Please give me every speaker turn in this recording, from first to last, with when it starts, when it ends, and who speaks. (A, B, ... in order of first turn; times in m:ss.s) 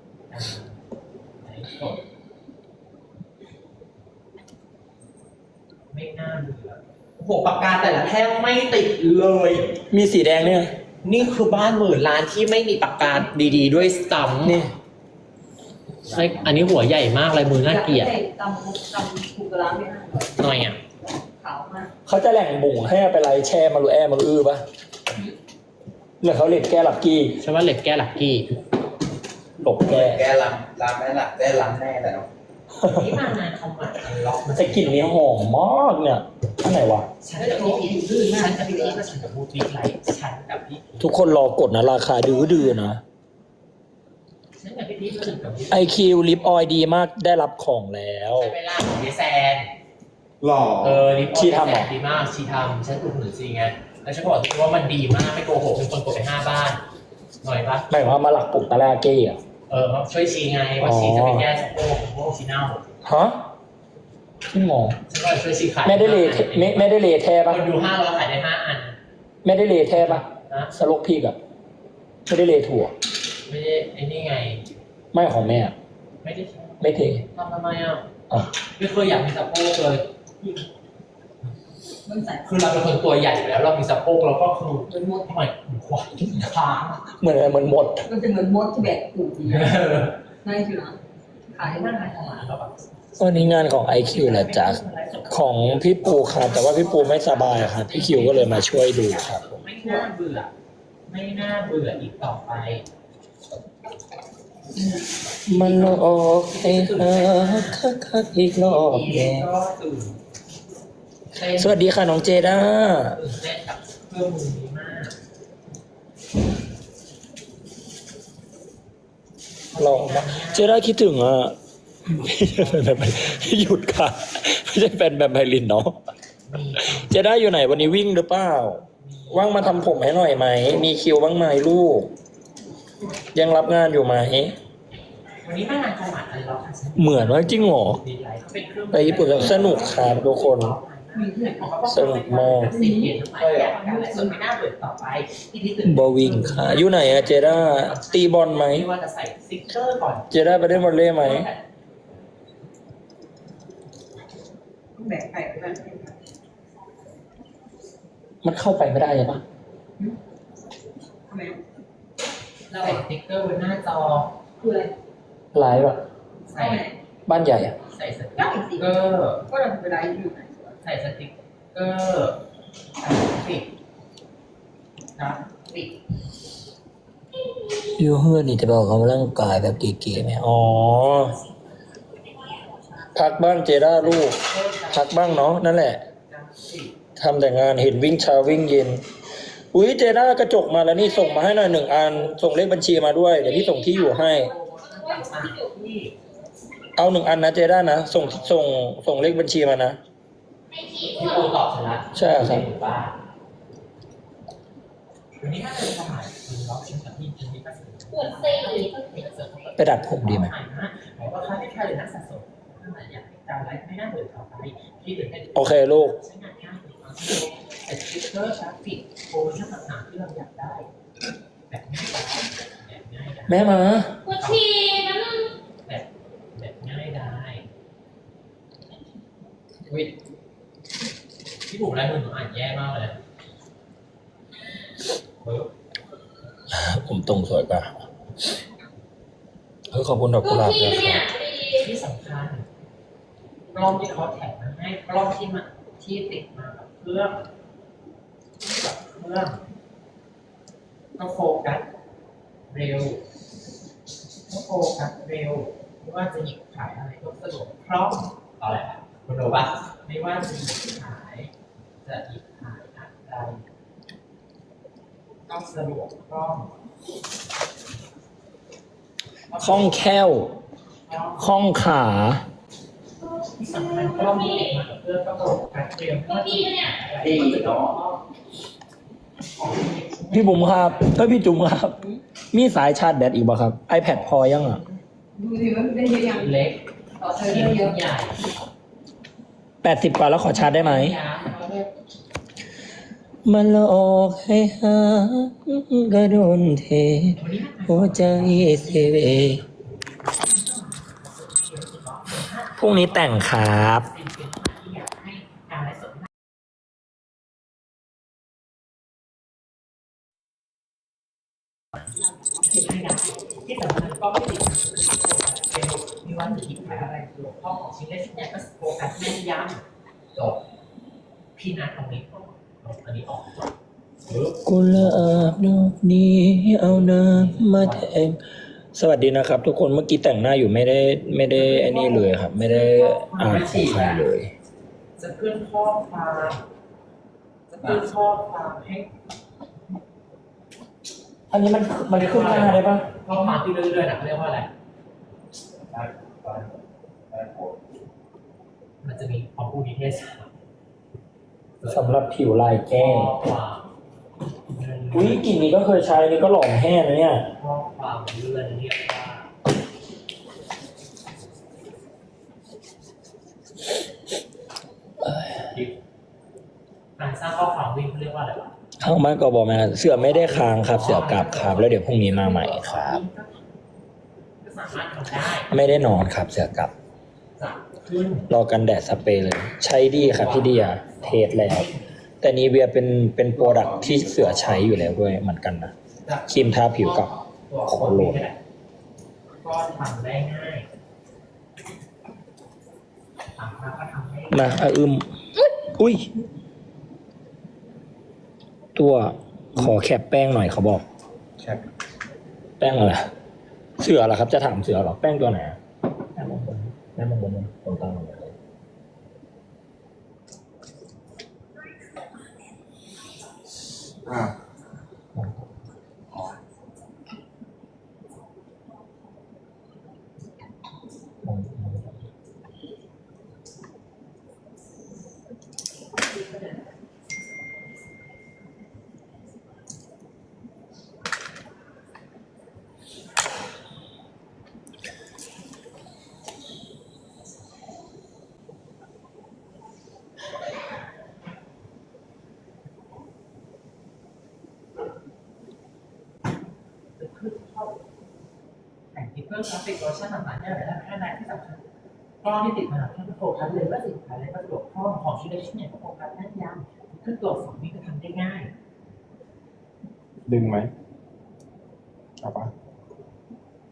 0:00.3-0:00.7 A
0:01.4-0:02.0 A
0:05.9-0:09.8 A
0:09.9-0:10.7 B
0:11.0-0:14.6 A
0:13.2-0:13.8 C
0:14.4-0:14.7 B
0:16.1-0:16.7 D
0:16.1-0:18.1 A
0:17.6-0:20.5 C
0:20.4-0:20.8 A
0:21.1-0:21.9 C
0:22.0-0:24.6 B
0:26.2-0:27.4 B
0:27.4-0:28.6 A
0:29.6-0:30.2 B
0:29.8-0:32.3 D
0:32.8-0:33.1 B
0:32.8-0:35.2 A
0:34.5-0:37.1 B
0:37.2-0:41.2 A
0:37.4-0:39.0 C
0:41.0-0:43.0 B
0:44.6-0:45.9 A
0:45.7-0:48.6 B
0:48.3-0:49.7 A
0:50.4-0:51.1 D
0:50.8-0:56.8 A
0:51.3-0:51.9 B
0:57.4-0:57.9 A
0:57.9-0:59.4 B
0:59.7-1:02.8 A
1:00.8-1:01.5 B
1:03.0-1:03.4 B
1:04.5-1:05.0 B
1:05.1-1:06.9 A
1:05.8-1:07.7 B
1:07.5-1:09.0 A
1:09.4-1:11.4 B
1:09.9-1:10.7 A
1:12.2-1:12.9 B
1:13.5-1:14.7 A
1:15.1-1:15.7 B
1:16.2-1:18.1 A
1:16.8-1:17.2 B
1:18.8-1:20.5 A
1:22.0-1:22.6 C
1:22.4-1:27.1 A
1:24.9-1:25.3 C
1:27.2-1:28.1 B
1:28.0-1:29.8 C
1:29.5-1:30.2 A
1:30.4-1:31.0 C
1:31.5-1:32.1 C
1:31.5-1:40.5 A
1:33.2-1:39.6 B
1:41.1-1:42.8 A
1:45.4-1:47.8 A
1:45.4-1:49.5 B
1:48.8-1:50.2 A
1:51.3-1:51.8 A
1:51.5-1:53.2 B
1:53.1-1:55.1 A
1:59.7-2:00.7 A
1:59.8-2:06.0 B
2:02.4-2:03.9 A
2:06.5-2:07.3 A
2:06.8-2:12.1 B
2:08.9-2:10.8 A
2:13.3-2:14.6 B
2:15.4-2:31.6 A
2:17.0-2:18.0 B
2:18.9-2:20.8 B
2:21.1-2:21.8 C
2:21.8-2:22.7 B
2:22.6-2:24.4 C
2:23.4-2:23.7 D
2:25.8-2:28.9 B
2:30.3-2:31.5 B
2:35.0-2:36.2 C
2:38.4-2:39.4 B
2:41.3-2:41.6 C
2:42.7-2:43.0 C
2:42.7-2:44.3 A
2:44.6-2:44.9 C
2:45.5-2:46.0 B
2:46.5-2:46.9 A
2:46.5-2:47.0 C
2:47.3-2:47.8 B
2:47.8-2:49.5 A
2:48.4-2:49.0 C
2:49.5-2:50.8 C
2:50.8-2:52.4 A
2:53.0-2:53.7 A
2:55.1-2:56.0 A
2:57.8-3:01.4 B
3:03.1-3:04.4 B
3:04.0-3:05.6 A
3:04.9-3:06.0 B
3:06.2-3:07.0 A
3:07.2-3:09.0 B
3:09.7-3:14.5 B
3:11.1-3:11.5 E
3:13.4-3:15.6 E
3:14.2-3:16.1 A
3:17.0-3:20.0 B
3:18.1-3:18.6 A
3:20.7-3:21.4 E
3:21.0-3:23.2 A
3:22.1-3:22.7 B
3:25.4-3:40.9 A
3:28.1-3:29.0 E
3:29.8-3:30.5 B
3:35.5-3:36.2 B
3:41.7-3:44.7 A
3:43.5-3:44.2 B
3:44.2-3:45.5 E
3:45.8-3:47.7 A
3:51.7-3:53.2 A
3:55.4-3:55.7 A
3:56.7-3:57.9 B
3:59.9-4:01.3 B
4:00.4-4:01.9 E
4:01.7-4:02.6 A
4:03.7-4:07.5 A
4:08.6-4:09.6 A
4:11.2-4:11.9 A
4:12.7-4:13.2 A
4:14.5-4:23.6 A
4:25.5-4:26.7 A
4:29.5-4:30.1 A
4:29.6-4:30.6 B
4:31.0-4:31.6 A
4:31.4-4:32.4 B
4:33.6-4:38.2 A
4:36.4-4:36.9 E
4:37.2-4:37.9 D
4:39.5-4:41.2 A
4:40.3-4:42.0 B
4:42.5-4:44.8 B
4:45.4-4:46.5 C
4:46.2-4:48.4 A
4:47.2-4:48.0 C
4:49.8-4:51.2 B
4:50.5-4:51.9 A
4:53.4-4:59.6 B
4:57.3-5:06.3 A
5:02.8-5:04.1 B
5:12.6-5:20.6 A
5:16.8-5:17.5 C
5:21.5-5:23.7 A
5:24.2-5:25.5 A
5:24.6-5:28.4 B
5:26.8-5:28.1 A
5:28.9-5:34.5 B
5:31.5-5:34.2 A
5:35.2-5:36.6 A
5:37.7-5:39.1 A
5:41.5-5:43.1 B
5:42.1-5:44.7 A
5:45.9-5:46.7 D
5:47.3-5:47.8 D
5:49.0-5:50.5 A
5:51.8-5:52.2 A
5:51.9-5:53.4 B
5:52.9-5:53.9 A
5:54.7-5:55.5 A
5:55.1-5:57.5 B
5:57.6-5:59.5 A
6:05.2-6:05.6 B
6:05.6-6:05.9 A
6:07.2-6:08.7 A
6:09.0-6:13.2 B
6:10.1-6:13.6 A
6:14.6-6:15.7 A
6:15.7-6:16.9 B
6:17.6-6:18.5 A
6:18.5-6:21.9 B
6:20.1-6:22.1 A
6:22.4-6:25.9 B
6:23.5-6:25.1 D
6:26.2-6:28.6 A
6:26.5-6:27.3 B
6:27.9-6:28.4 B
6:29.6-6:30.9 A
6:33.5-6:34.8 A
6:34.5-6:35.3 B
6:35.8-6:36.3 B
6:38.9-6:41.0 B
6:42.8-6:43.3 B
6:44.0-6:45.8 B
6:46.3-6:48.5 B
6:54.2-6:54.5 D
7:01.4-7:02.2 B
7:27.2-7:28.0 A
7:29.1-7:31.8 A
7:32.4-7:38.7 A
7:40.4-7:40.9 D
7:42.4-7:42.7 D